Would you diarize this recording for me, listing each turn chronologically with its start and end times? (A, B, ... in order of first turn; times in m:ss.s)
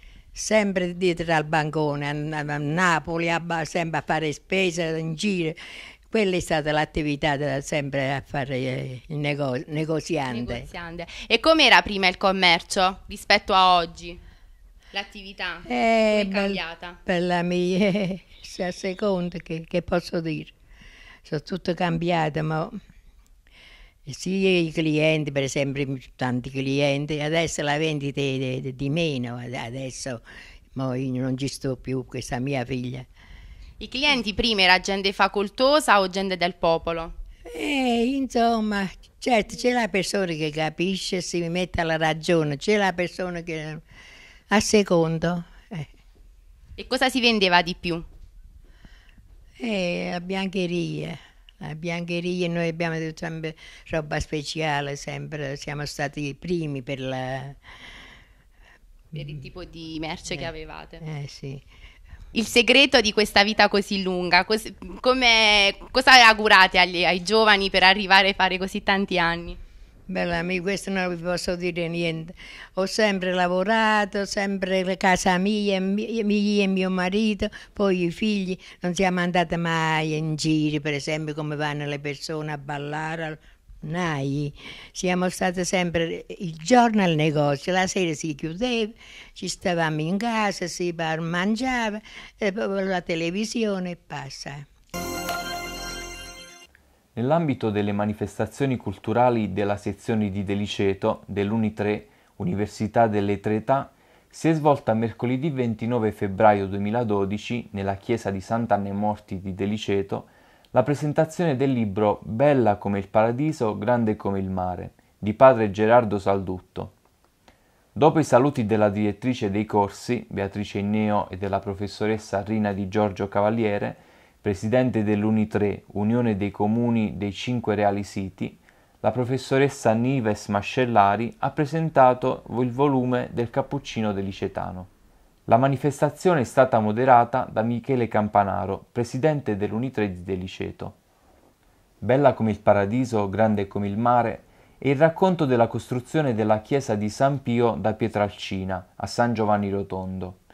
0:00.3-0:05.6 A
0:06.1-0:10.6 A
0:10.3-0:14.2 B
0:14.9-0:17.0 B
0:15.7-0:20.5 A
0:21.2-0:22.8 A
0:24.1-0:30.2 A
0:30.7-0:33.1 A
0:33.8-0:37.1 B
0:37.5-0:43.8 A
0:44.5-0:45.9 A
0:46.8-0:48.0 B
0:49.6-0:57.6 A
0:59.2-1:01.0 B
1:01.0-1:01.6 A
1:02.3-1:09.6 B
1:10.1-1:34.6 A
1:37.2-1:56.9 C
1:58.0-2:14.9 C
2:15.5-2:21.0 C
2:22.0-2:30.4 C